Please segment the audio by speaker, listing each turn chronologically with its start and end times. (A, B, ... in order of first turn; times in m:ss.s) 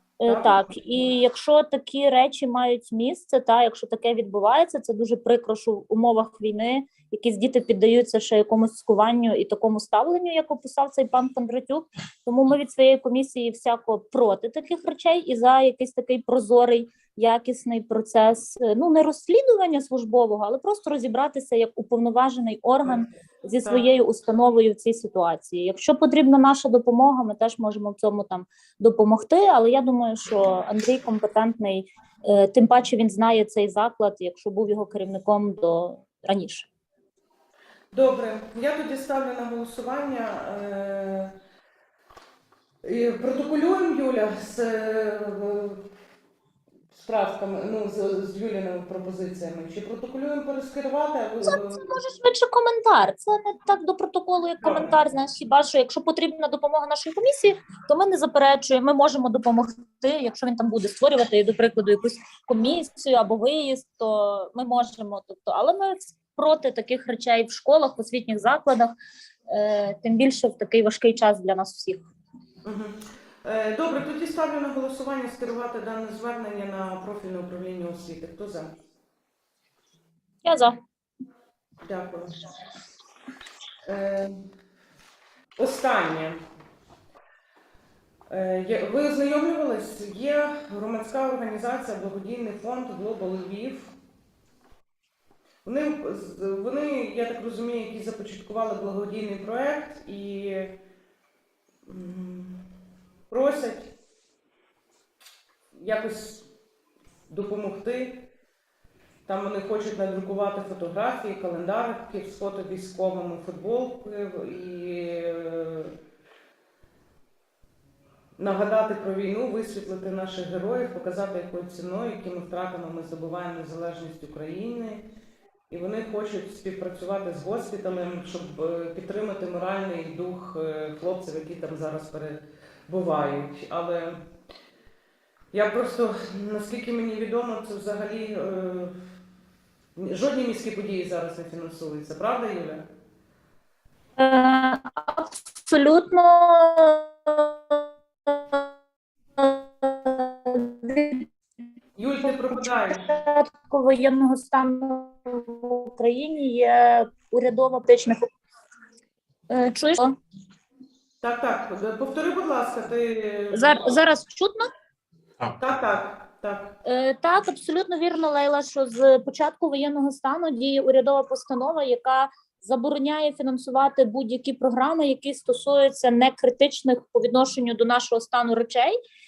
0:00.2-0:36.7 A
0:00.3-0:00.6 B
0:37.9-0:41.3 B
0:42.8-0:45.8 B
0:46.9-0:51.9 B
0:51.4-1:08.9 A
0:54.6-0:55.0 B
1:09.5-1:12.1 A
1:12.6-1:18.7 B
1:20.4-1:20.8 A
1:21.8-1:22.4 B
1:23.9-1:24.5 B
1:25.6-1:26.4 B
1:28.3-1:33.9 B
1:35.6-1:40.8 B
1:41.9-1:42.6 B
1:43.3-1:43.9 B
1:45.7-1:46.5 B
1:47.3-1:48.3 B
1:49.3-1:55.9 B
1:58.4-2:05.0 B
2:05.7-2:14.2 B
2:15.5-2:18.9 B
2:20.0-2:22.8 B
2:24.2-2:28.7 A
2:29.4-2:31.3 A
2:32.0-2:33.1 B
2:32.3-2:38.3 A
2:39.5-2:40.2 A
2:41.2-2:43.9 B
2:43.5-2:44.7 A
2:45.6-2:46.8 B
2:46.8-2:59.0 A